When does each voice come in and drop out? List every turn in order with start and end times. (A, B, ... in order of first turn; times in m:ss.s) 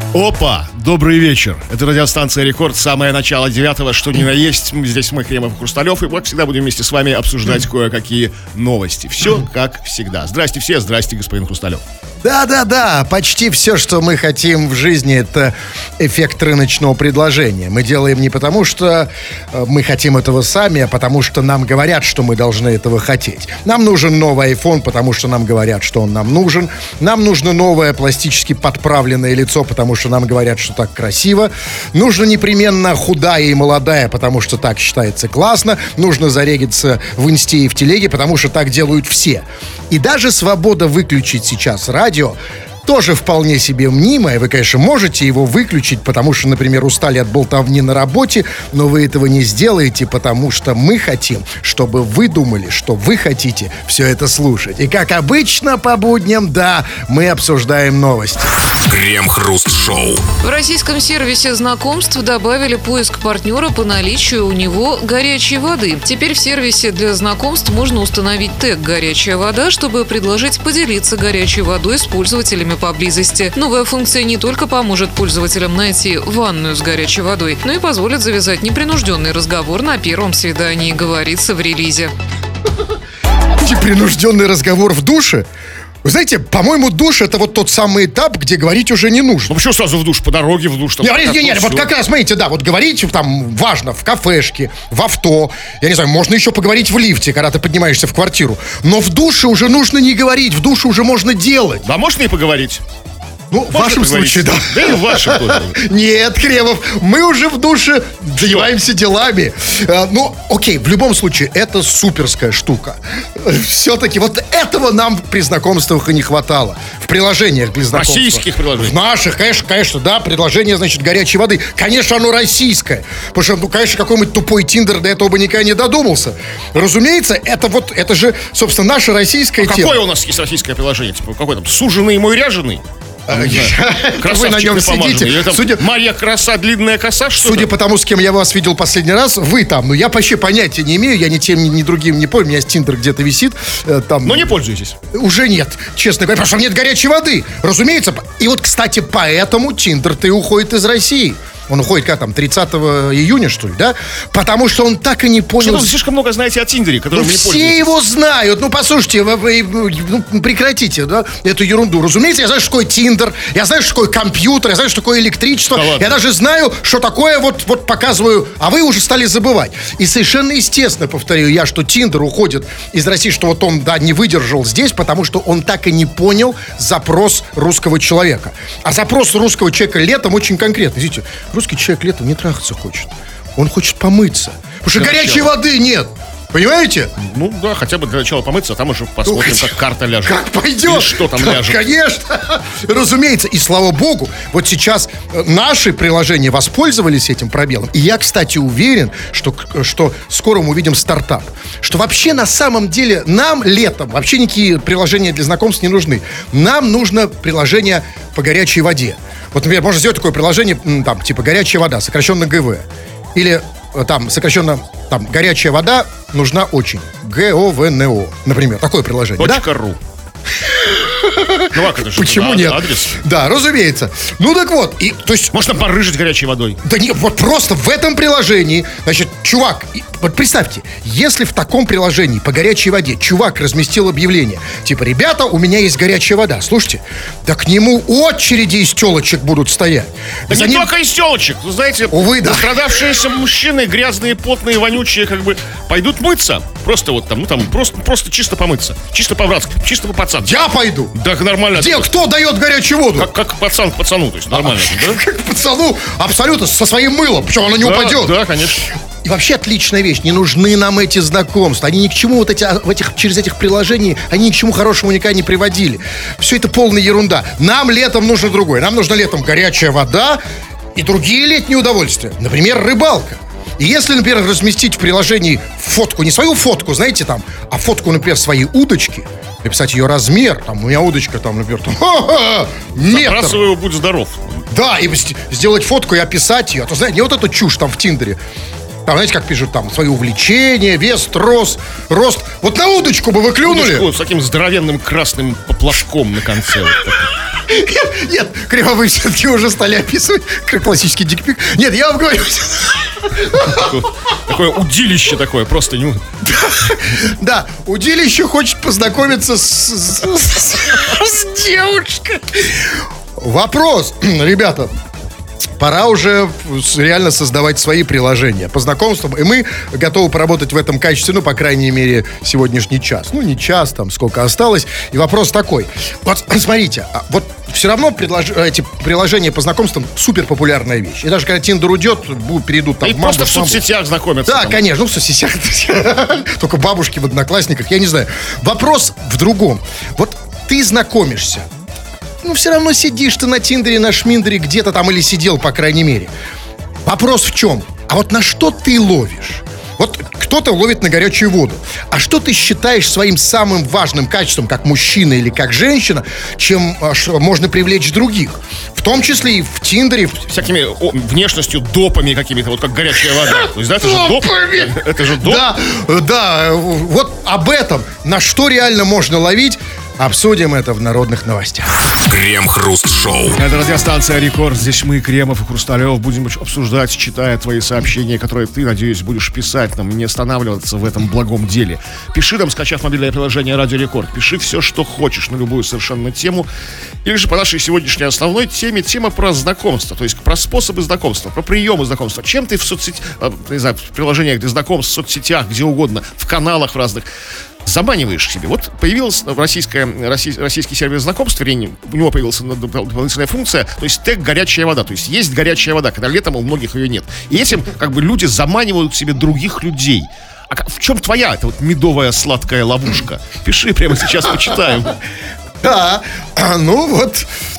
0:00.1-0:11.8 A
0:12.2-0:58.5 B
0:58.8-1:00.2 C
1:00.4-1:22.1 D
1:23.6-1:25.5 B
1:26.0-1:29.5 B
1:29.5-1:31.9 A
1:31.0-1:41.9 B
1:41.8-1:42.8 A
1:43.5-2:10.0 B
1:43.7-1:45.8 A
1:48.4-1:48.7 A
1:57.9-1:58.9 A
2:09.6-2:17.7 A
2:13.3-2:15.8 B
2:17.4-2:24.5 B
2:24.2-2:25.0 A
2:25.1-2:35.9 B
2:35.6-2:37.9 A
2:37.1-3:07.1 B
2:45.7-2:46.1 A
3:04.9-3:05.5 A
3:07.2-3:11.8 A
3:09.2-3:09.7 B
3:10.2-3:39.6 B
3:39.4-3:40.0 A
3:40.6-3:45.8 B
3:41.7-3:43.2 A
3:45.5-3:46.8 A
3:46.8-4:00.9 B
4:00.5-4:10.5 A
4:02.1-4:03.0 B
4:10.4-4:11.1 B
4:11.1-4:12.1 A
4:11.7-4:13.3 B
4:13.2-4:15.2 A
4:14.5-4:30.4 B
4:17.8-4:18.8 A
4:30.9-4:43.6 B
4:43.0-4:44.6 A
4:44.7-4:48.4 B
4:49.0-4:54.1 B
4:53.6-4:57.3 A
4:57.6-5:03.9 B
5:03.5-5:06.2 A
5:06.4-5:14.9 B
5:15.6-5:33.8 B
5:33.0-5:34.8 A
5:34.4-5:41.7 B
5:42.4-5:46.3 B
5:47.0-6:00.5 B
6:00.5-6:05.6 A
6:03.4-6:11.9 B
6:12.1-6:13.6 C
6:13.6-6:26.7 A
6:27.2-6:37.2 A
6:37.8-6:55.2 A
6:55.8-6:57.5 B